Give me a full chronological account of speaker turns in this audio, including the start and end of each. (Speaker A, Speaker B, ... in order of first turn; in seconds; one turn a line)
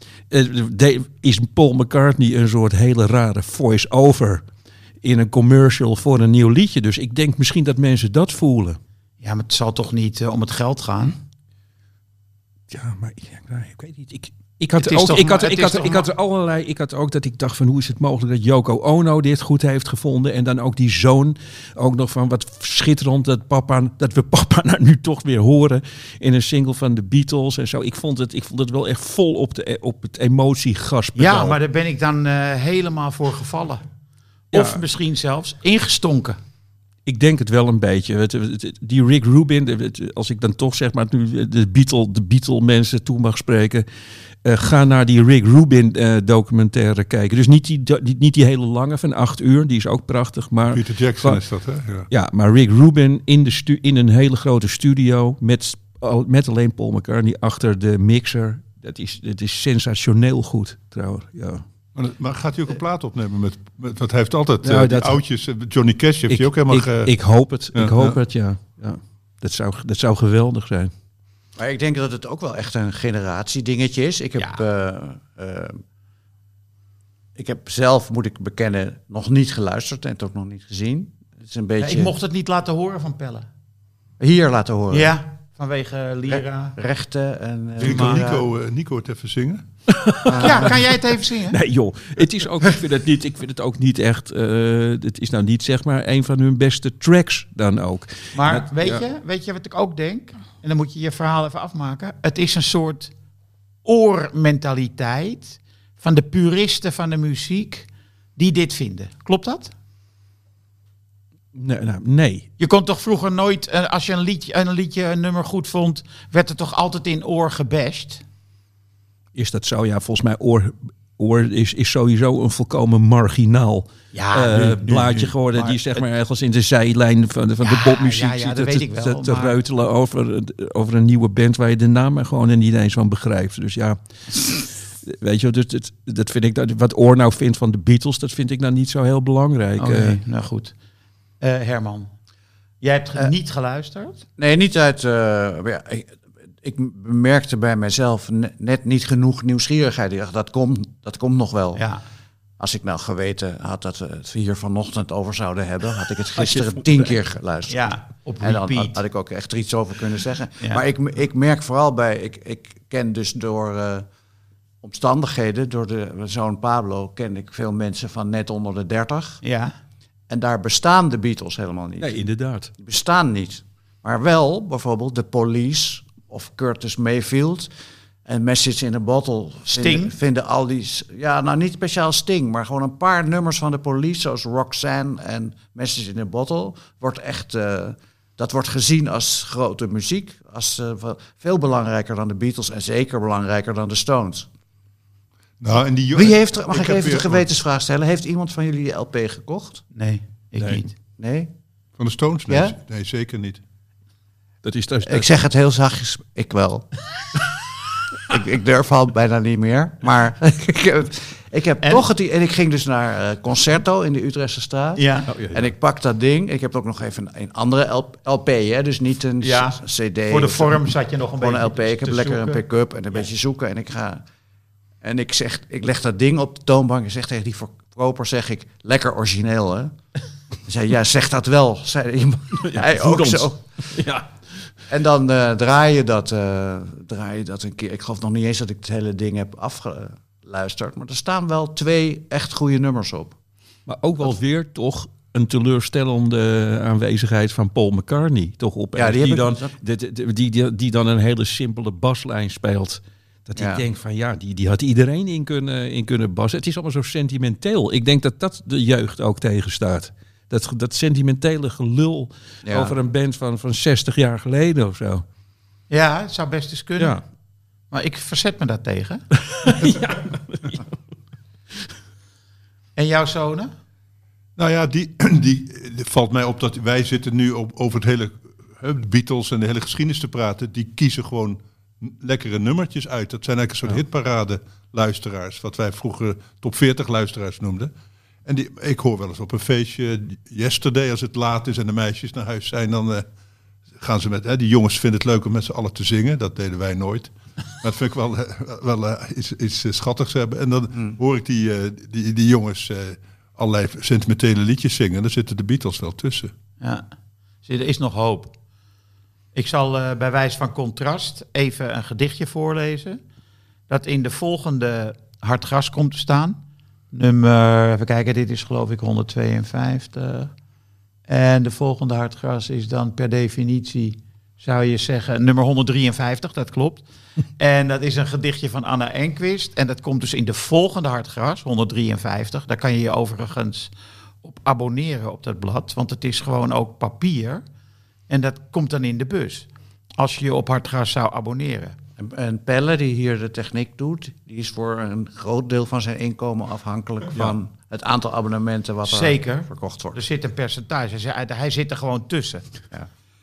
Speaker A: 0.3-4.4
Speaker A: 5.0-8.8
Speaker B: 9.2-11.2
Speaker A: 12.7-31.6
Speaker B: 14.8-16.1
Speaker B: 31.1-33.8
Speaker B: 34.5-36.4
Speaker A: 34.5-34.8
Speaker A: 37.0-43.9
Speaker A: 44.4-51.4
Speaker C: 50.7-52.1
Speaker A: 52.1-61.6
Speaker C: 61.9-67.1
Speaker A: 64.6-65.2
Speaker A: 66.3-70.9
Speaker C: 67.7-68.2
Speaker D: 71.6-75.8
Speaker D: 77.3-82.1
Speaker B: 81.8-83.5
Speaker D: 84.2-85.2
Speaker B: 84.9-86.8
Speaker D: 86.3-88.5
Speaker C: 87.8-89.6
Speaker B: 87.8-88.2
Speaker A: 89.9-90.8
Speaker D: 90.2-90.7
Speaker B: 90.4-91.6
Speaker A: 91.5-99.0
Speaker B: 98.3-103.1
Speaker B: 103.8-109.7
Speaker A: 111.5-112.5
Speaker B: 112.6-118.2
Speaker A: 119.3-140.2
Speaker B: 124.1-125.0
Speaker C: 124.8-125.2
Speaker B: 125.5-126.0
Speaker B: 127.6-129.6
Speaker B: 139.8-140.7
Speaker B: 141.4-142.1
Speaker B: 142.8-144.2
Speaker D: 144.4-151.9
Speaker D: 152.6-164.1
Speaker A: 156.4-157.1
Speaker B: 157.7-159.0
Speaker D: 164.8-169.4
Speaker B: 169.4-169.7
Speaker D: 170.3-172.2
Speaker A: 172.0-172.7
Speaker D: 172.8-177.7
Speaker D: 178.2-194.5
Speaker B: 179.7-180.1
Speaker C: 195.6-197.4
Speaker D: 196.1-199.8
Speaker B: 199.9-200.9
Speaker D: 201.2-201.5
Speaker C: 202.0-203.6
Speaker D: 202.5-202.8
Speaker A: 204.6-205.3
Speaker D: 205.0-206.9
Speaker D: 208.3-224.2
Speaker B: 214.9-215.3
Speaker A: 215.3-215.6
Speaker B: 219.4-222.6
Speaker D: 225.0-229.9
Speaker D: 230.6-233.9
Speaker A: 232.6-234.3
Speaker D: 234.9-243.3
Speaker A: 243.9-265.2
Speaker D: 248.9-249.7
Speaker D: 253.6-253.8
Speaker D: 262.6-263.0
Speaker B: 265.9-267.2
Speaker B: 267.9-269.2
Speaker A: 269.4-270.9
Speaker B: 272.9-273.7
Speaker C: 274.6-287.9
Speaker C: 288.4-293.2
Speaker C: 294.0-306.5
Speaker B: 306.8-307.1
Speaker B: 307.6-308.5
Speaker B: 309.5-313.2
Speaker B: 313.9-316.6
Speaker B: 317.1-320.5
Speaker B: 321.3-327.0
Speaker B: 327.6-333.9
Speaker B: 334.4-337.6
Speaker B: 338.3-342.0
Speaker D: 342.2-350.2
Speaker B: 349.1-352.6